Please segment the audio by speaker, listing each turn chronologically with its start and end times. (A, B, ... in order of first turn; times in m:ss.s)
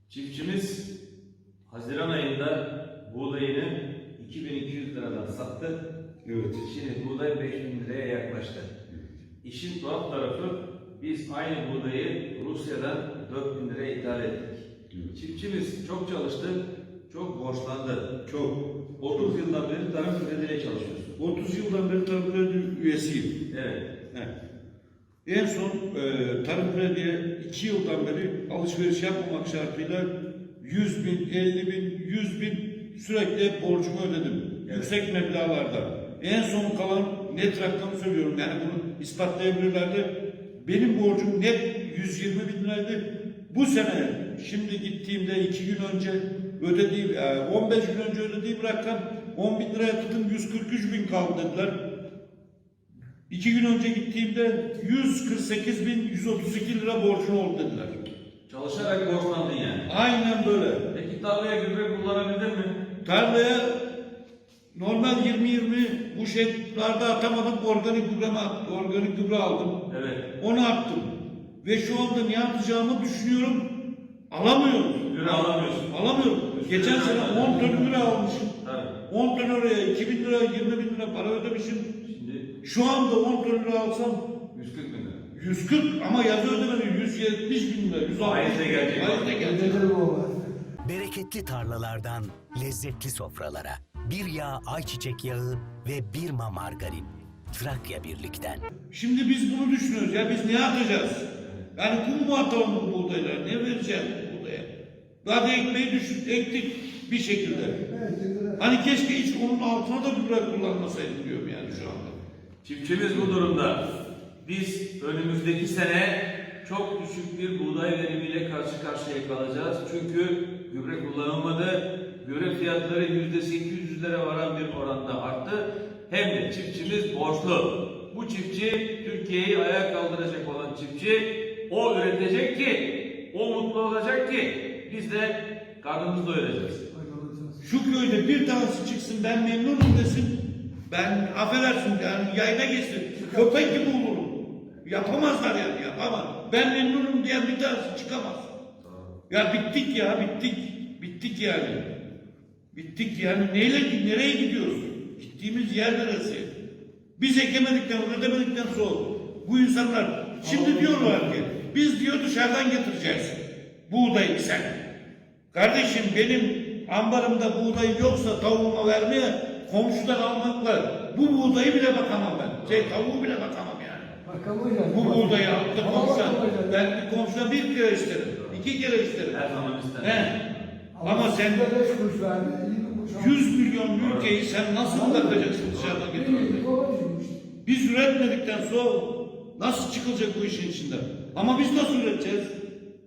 0:00.1-0:00.9 A
0:01.7-0:05.8 A
0:06.2-0:06.6 B
0:06.6-0:08.7 A
0:09.4-0:18.1 A
0:18.2-0:18.6 B
0:19.0-0:21.1 A
0:19.1-0:19.4 B
0:21.2-0:23.4 B
0:23.5-0:23.9 A
0:25.2-0:51.8 B
0:34.6-0:35.0 A
0:53.3-0:58.0 B
0:58.5-0:59.9 A
0:59.9-1:00.9 B
1:00.9-1:02.8 A
1:03.0-1:03.8 B
1:04.7-1:09.8 B
1:09.9-1:10.2 A
1:10.4-1:13.7 B
1:14.3-1:18.5 B
1:15.1-1:18.1 A
1:18.6-1:18.9 A
1:19.1-1:21.9 B
1:22.0-1:22.5 A
1:22.6-1:24.2 B
1:24.5-1:25.2 A
1:25.3-1:29.8 B
1:28.2-1:29.3 A
1:29.4-1:30.5 C
1:30.8-1:38.6 D
1:38.9-1:44.7 B
1:41.4-1:41.6 A
1:45.2-1:47.8 B
1:47.4-1:48.7 C
1:48.6-1:52.2 B
1:52.6-1:53.8 A
1:54.4-2:16.8 A
2:16.9-2:17.6 C
2:17.6-2:28.5 B
2:23.2-2:23.8 C
2:28.8-2:29.1 A
2:29.3-2:31.8 B
2:32.7-2:36.5 B
2:37.2-2:44.8 B
2:40.4-2:41.3 C
2:45.5-2:54.1 B
2:52.6-2:53.0 A
2:54.2-2:56.9 C
2:54.9-3:00.3 B
2:58.2-2:58.6 A
2:59.3-3:00.7 A
3:00.9-3:03.4 C
3:01.0-3:01.7 B
3:03.1-3:06.6 B
3:04.0-3:04.4 A
3:04.8-3:05.5 C
3:05.5-3:06.1 A
3:06.1-3:07.4 C
3:07.6-3:12.5 B